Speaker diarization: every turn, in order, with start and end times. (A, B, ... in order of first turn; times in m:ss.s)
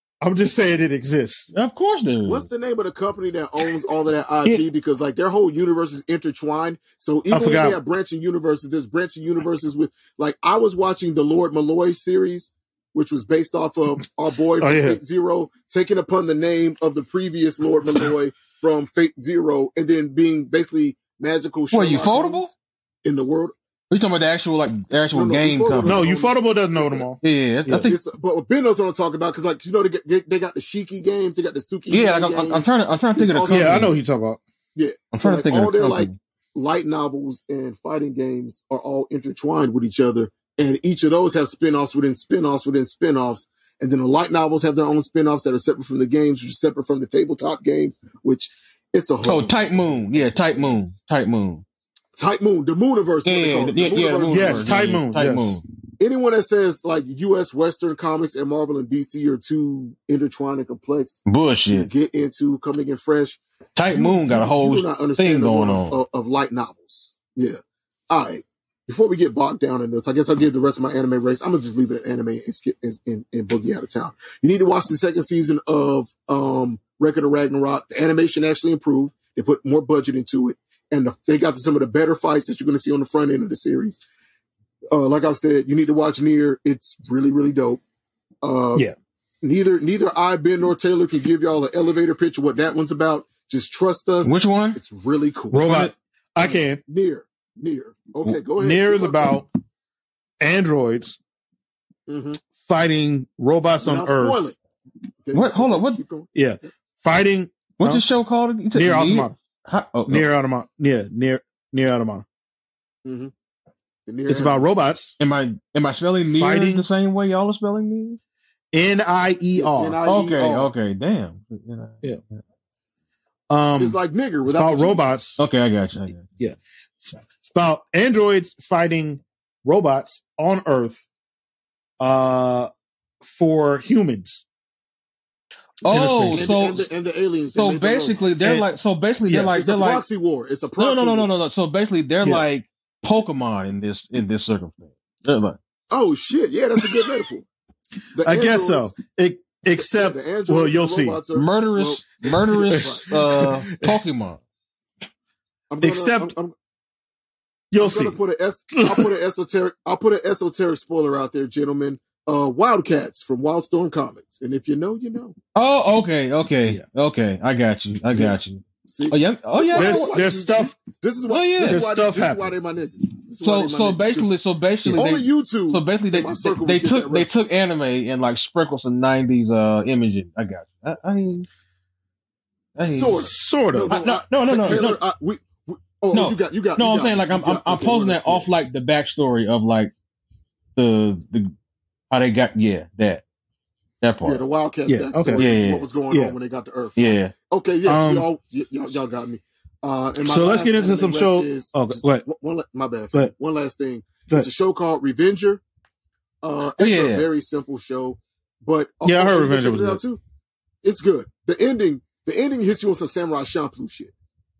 0:00.2-0:01.5 A
0:01.5-0:02.5 B
0:02.3-0:22.5 C
0:07.3-0:07.8 A
0:14.6-0:15.0 A
0:21.7-0:22.5 B
0:23.0-0:23.5 C
0:23.9-0:26.0 B
0:25.1-0:27.1 C
0:25.8-0:27.2 A
0:27.2-0:28.0 B
0:27.7-0:33.9 C
0:31.9-0:33.9 B
0:33.5-0:34.4 A
0:34.8-0:50.8 C
0:35.1-0:36.1 B
0:49.2-0:51.6 B
0:52.2-0:54.8 C
0:53.2-0:55.6 B
0:54.3-0:55.6 A
0:56.0-1:24.0 C
1:01.3-1:01.9 B
1:03.8-1:06.0 B
1:24.9-1:27.8 C
1:28.4-1:28.9 C
1:29.4-1:35.8 C
1:34.2-1:34.8 B
1:35.5-1:36.8 A
1:35.6-1:35.9 B
1:36.4-1:39.4 C
1:38.2-1:39.5 A
1:40.4-1:41.2 A
1:42.1-1:42.4 C
1:42.6-1:44.5 A
1:43.8-1:44.6 C
1:45.2-1:46.3 C
1:45.3-1:46.0 B
1:46.3-1:48.0 A
1:47.8-1:50.3 B
1:48.7-1:49.3 A
1:50.1-1:52.2 A
1:53.0-1:53.3 C
1:54.1-1:54.8 C
1:54.3-1:55.2 A
1:55.2-1:58.2 B
1:56.2-1:56.9 A
1:58.7-2:00.0 A
1:59.6-2:00.7 C
2:00.1-2:02.0 B
2:03.5-2:05.4 A
2:03.8-2:05.1 C
2:05.4-2:06.2 B
2:06.2-2:11.1 A
2:12.0-2:12.7 A
2:13.2-2:14.4 A
2:15.8-2:16.9 B
2:15.8-2:16.5 A
2:16.3-2:18.3 C
2:17.6-2:20.0 B
2:19.3-2:19.6 A
2:19.5-2:21.3 C
2:20.8-2:25.6 B
2:25.9-2:27.5 C
2:28.2-2:28.9 C
2:28.2-2:31.2 A
2:29.8-2:33.2 C
2:31.3-2:34.4 B
2:32.7-2:34.0 A
2:35.7-2:36.5 C
2:35.8-2:36.3 A
2:37.7-2:38.2 A
2:37.8-2:45.4 C
2:38.8-2:39.1 A
2:45.6-2:50.2 B
2:48.1-2:54.3 C
2:49.8-2:50.8 A
2:51.3-2:51.8 B
2:51.6-2:52.6 A
2:53.4-3:01.5 B
2:55.0-2:57.4 C
3:02.8-3:03.3 B
3:02.8-3:08.5 C
3:03.1-3:04.0 A
3:03.9-3:05.0 B
3:06.1-3:09.9 B
3:10.8-3:11.5 B
3:12.1-3:13.2 B
3:14.0-3:14.4 B
3:14.2-3:25.6 C
3:14.9-3:15.4 A
3:15.4-3:15.9 B
3:16.1-3:16.4 A
3:17.0-3:17.3 B
3:17.9-3:18.3 A
3:20.2-3:22.3 A
3:26.4-3:30.2 C
3:26.8-3:27.3 B
3:29.0-3:30.0 A
3:30.8-3:34.1 C